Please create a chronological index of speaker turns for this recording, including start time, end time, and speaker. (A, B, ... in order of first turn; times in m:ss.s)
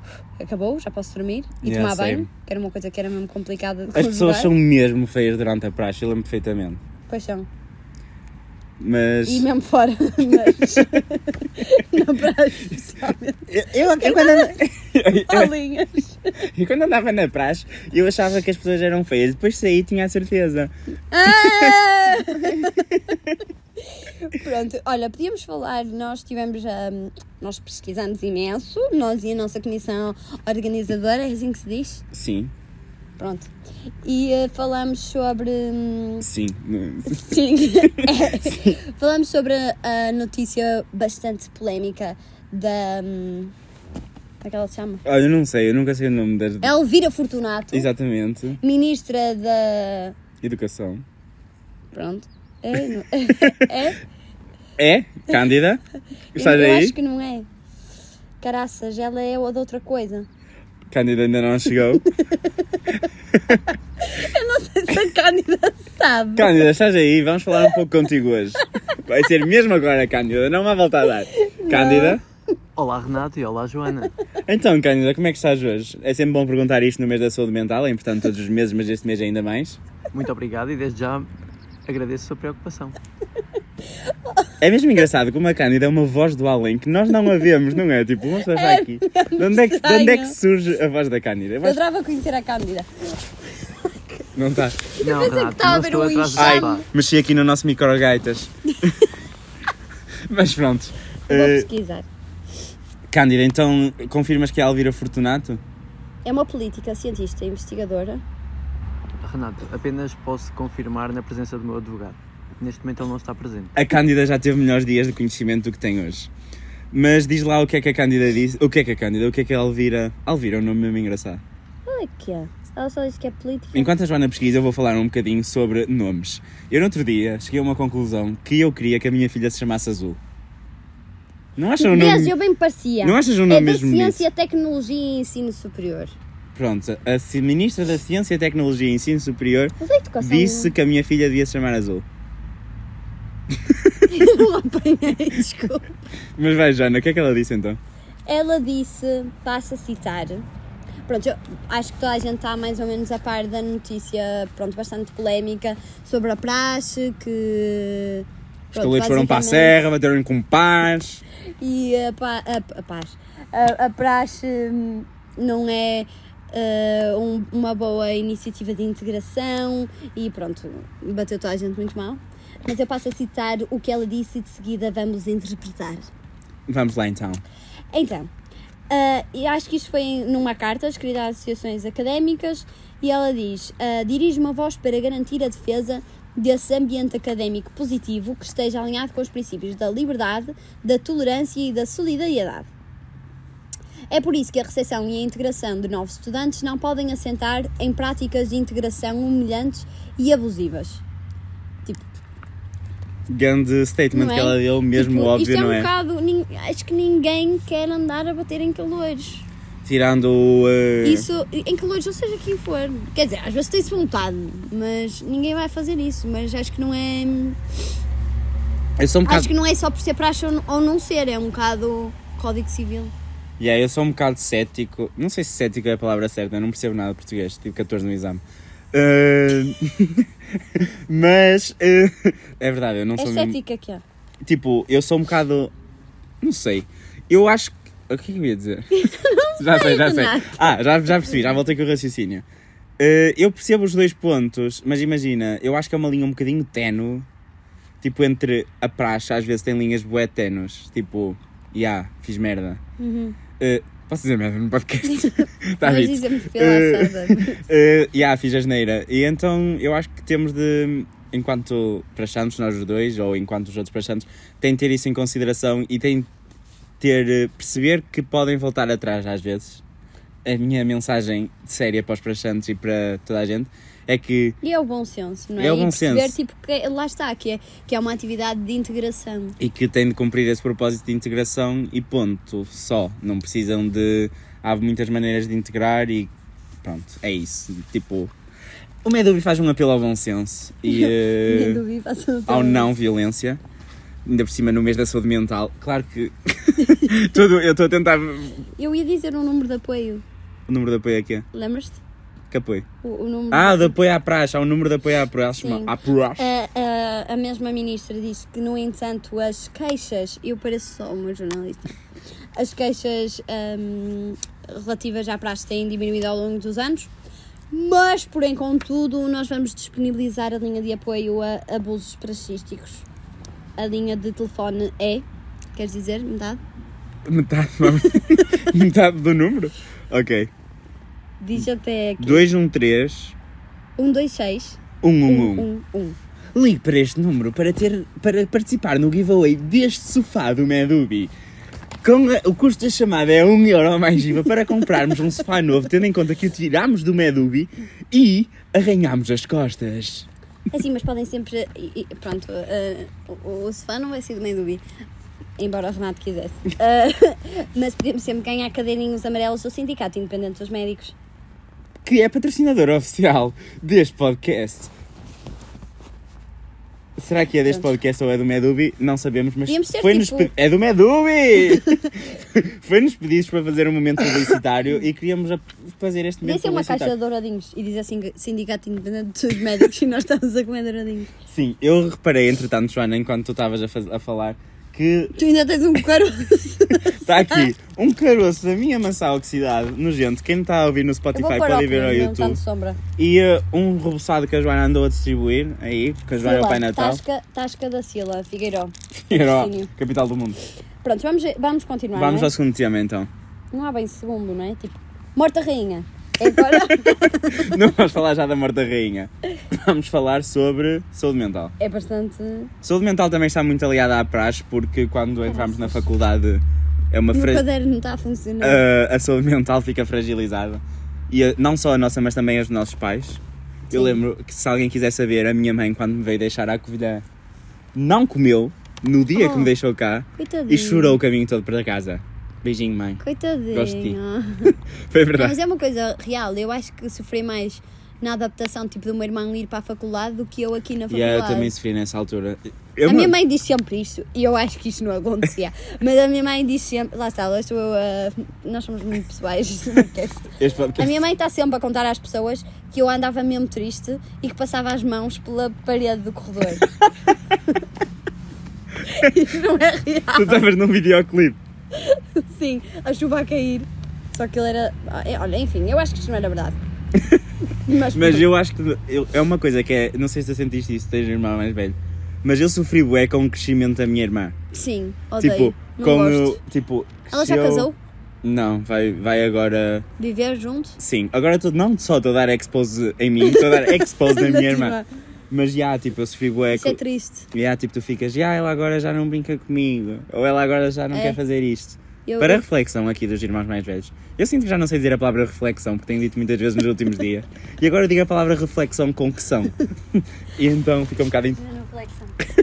0:00.4-0:04.5 A
0:01.6-0:02.3 B
0:03.9-0:06.8 B
0:07.1-0:07.5 A
0:08.8-0:09.5 B
0:09.2-0:14.6 A
0:10.5-0:10.8 B
0:13.5-0:15.5 B
0:15.2-0:16.3 A
0:16.5-0:20.7 B
0:21.1-0:22.8 A
0:21.2-0:21.8 B
0:24.2-0:32.0 A
0:32.1-0:32.5 B
0:33.2-0:33.5 A
0:34.0-0:36.3 A
0:36.2-0:38.7 B
0:37.1-0:43.5 A
0:44.4-0:45.0 A
0:45.0-0:46.7 B
0:46.6-0:47.9 A
0:47.7-0:48.6 B
0:48.6-0:50.1 A
0:50.4-0:51.0 B
0:51.9-0:54.0 A
0:54.8-0:55.8 B
0:56.4-0:57.0 B
0:56.4-0:57.5 A
0:58.4-1:00.2 A
1:00.9-1:02.0 B
1:03.3-1:03.6 B
1:04.0-1:06.6 A
1:06.4-1:12.2 B
1:11.4-1:12.2 A
1:12.8-1:14.1 C
1:14.5-1:19.8 B
1:20.1-1:21.3 C
1:21.9-1:23.0 C
1:24.6-1:31.8 B
1:28.5-1:30.4 A
1:31.6-1:32.9 A
1:33.8-1:34.2 A
1:34.4-1:34.8 B
1:35.0-1:36.8 A
1:35.0-1:36.8 C
1:36.4-1:38.9 B
1:40.3-1:41.7 B
1:41.3-1:42.1 A
1:43.1-1:45.6 B
1:46.2-1:48.2 A
1:49.2-1:53.7 C
1:53.8-1:56.3 B
1:56.9-2:01.4 B
2:01.9-2:03.9 A
2:03.7-2:10.2 B
2:11.6-2:12.4 B
2:11.8-2:16.1 A
2:13.0-2:14.2 B
2:16.6-2:22.0 B
2:19.8-2:20.7 A
2:23.7-2:24.0 B
2:24.1-2:25.9 A
2:26.4-2:27.8 B
2:28.2-2:30.4 A
2:31.1-2:39.8 A
2:38.7-2:41.2 B
2:41.6-2:56.1 A
2:56.7-2:57.4 B
2:57.9-2:58.3 A
2:58.9-3:12.7 A
3:14.1-3:21.0 A
3:23.3-3:25.9 B
3:24.1-3:29.5 A
3:29.8-3:31.3 B
3:31.0-3:37.6 A
3:39.0-3:39.5 B
3:39.2-3:43.1 A
3:43.6-3:48.4 B
3:48.9-3:53.6 B
3:53.2-3:54.0 A
3:54.4-3:55.7 B
3:56.4-3:58.9 B
3:58.9-4:00.8 A
3:59.6-4:02.4 B
4:03.0-4:07.3 B
4:08.0-4:12.8 B
4:13.0-4:13.4 A
4:13.6-4:26.3 B
4:15.1-4:17.6 A
4:27.0-4:29.8 B
4:30.4-4:34.6 B
4:34.6-4:39.6 A
4:35.6-4:36.4 B
4:39.6-4:46.3 B
4:46.8-4:48.3 B
4:49.0-4:51.8 B
4:50.9-4:52.9 A
4:52.5-4:53.6 B
4:54.2-4:58.7 B
4:56.8-4:57.1 A
4:58.8-5:00.2 A
5:00.7-5:01.5 B
5:01.5-5:02.0 A
5:02.5-5:02.9 B
5:03.0-5:04.0 A
5:03.5-5:06.5 B
5:05.6-5:11.9 A
5:12.6-5:17.1 A
5:17.7-5:23.0 A
5:23.8-5:26.6 A
5:27.2-5:30.5 B
5:31.4-5:32.5 A
5:32.2-5:33.3 B
5:34.0-5:36.2 A
5:35.0-5:35.7 B
5:36.5-5:41.3 B
5:42.0-5:50.3 B
5:50.7-5:54.8 A
5:55.6-6:01.1 A
6:02.0-6:04.9 B
6:07.2-6:17.2 B
6:09.7-6:10.5 A
6:16.4-6:21.3 A
6:21.5-6:25.4 B
6:25.4-6:27.7 A
6:27.2-6:32.6 B
6:31.3-6:33.0 A
6:33.2-6:37.2 B
6:36.4-6:39.9 A
6:39.3-6:40.6 B
6:41.0-6:42.5 A
6:42.2-6:43.3 B
6:43.7-6:47.6 A
6:46.7-6:51.7 B
6:51.8-6:52.7 A
6:52.8-6:57.7 B
6:55.5-6:56.0 A
6:57.3-6:58.8 A
6:58.6-7:07.2 B
7:03.9-7:04.2 A
7:07.9-7:13.2 B
7:09.3-7:09.7 A
7:10.4-7:11.2 A
7:13.2-7:14.7 A
7:13.7-7:14.2 B
7:15.1-7:15.6 B
7:15.3-7:21.7 A
7:21.1-7:23.3 B
7:23.0-7:36.9 A
7:30.6-7:31.2 B
7:39.1-7:40.6 A
7:40.4-7:41.6 B
7:41.9-7:46.8 A
7:47.8-7:48.5 A
7:48.1-7:54.6 B
7:54.7-7:56.6 A
7:55.4-7:57.9 B
7:57.3-7:58.0 A
7:58.4-8:00.0 B
8:00.2-8:01.0 A
8:01.0-8:05.0 B
8:03.4-8:05.1 A
8:05.5-8:07.0 B
8:06.7-8:07.5 A
8:07.5-8:21.6 B
8:11.1-8:11.4 A
8:12.2-8:12.6 A
8:21.6-8:22.4 A